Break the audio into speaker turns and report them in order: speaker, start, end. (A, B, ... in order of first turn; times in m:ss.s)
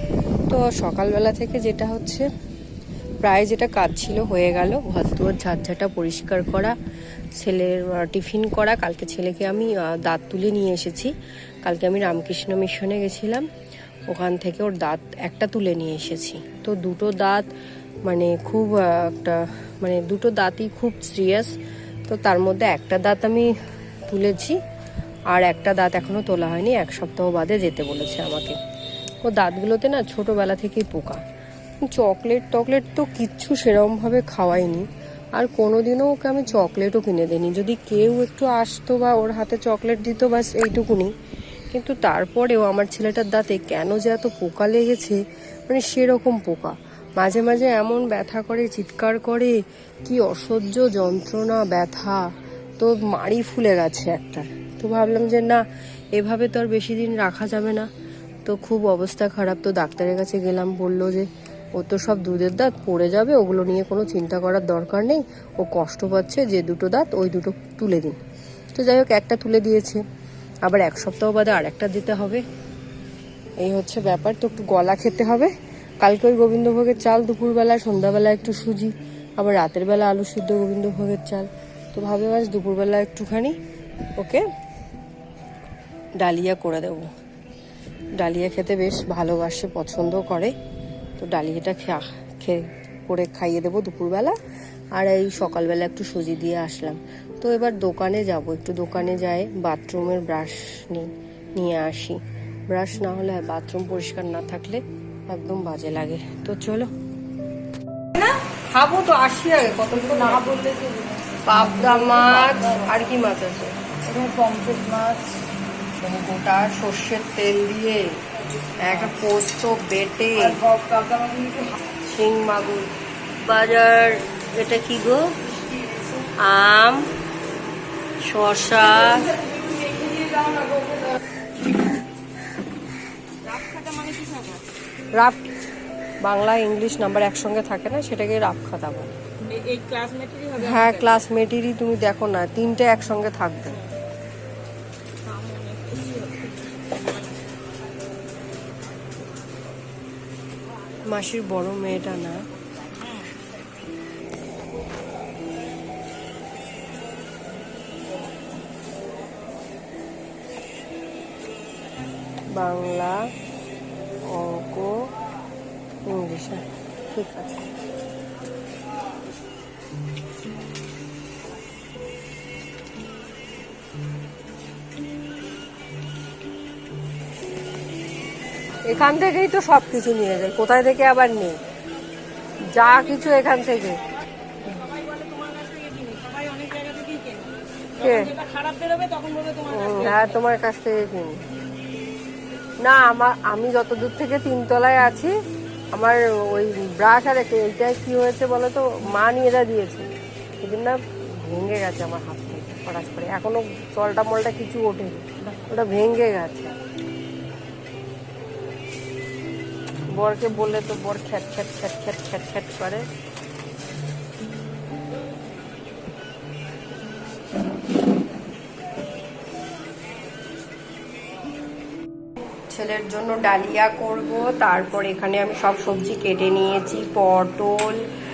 0:00.5-0:02.3 A
0:03.2-0:06.8 A
0:07.4-0:13.5 A
0:14.1-0:17.5 A
0:18.0-0:21.5 A
0:22.0-0:23.5 A
0:24.1-0:24.6 A
0:25.3-0:28.6 A
0:29.2-0:31.2 A
0:31.8-0:41.1 A
0:41.7-0:55.6 A
0:56.2-0:57.9 A
0:58.4-1:08.2 A
1:08.7-1:10.0 A
1:10.6-1:12.4 A
1:13.6-1:23.6 A
1:24.2-1:24.4 A
1:26.2-1:27.1 A
1:28.2-1:30.5 A
1:31.2-1:34.4 A
1:34.9-1:46.9 A
1:48.1-1:50.6 A
1:50.4-1:51.4 B
1:51.4-1:53.8 A
1:52.4-1:52.8 B
1:54.0-1:55.4 B
1:56.0-1:58.2 A
1:58.8-2:00.6 A
2:00.6-2:01.8 B
2:02.0-2:05.4 A
2:06.3-2:07.1 A
2:08.2-2:09.4 A
2:09.6-2:11.1 B
2:13.4-2:14.6 B
2:15.1-2:15.5 A
2:16.2-2:19.1 A
2:19.5-2:20.8 B
2:20.5-2:23.8 A
2:25.2-2:27.3 B
2:31.0-2:32.4 A
2:42.5-2:43.3 A
2:44.2-2:45.1 A
2:46.0-2:47.7 A
2:58.8-3:01.6 A
3:02.6-3:04.1 A
3:04.6-3:10.2 B
3:08.0-3:08.4 A
3:09.6-3:11.4 A
3:12.8-3:15.3 A
3:15.9-3:20.1 A
3:20.6-3:26.7 A
3:30.1-3:33.1 A
3:42.7-3:48.0 A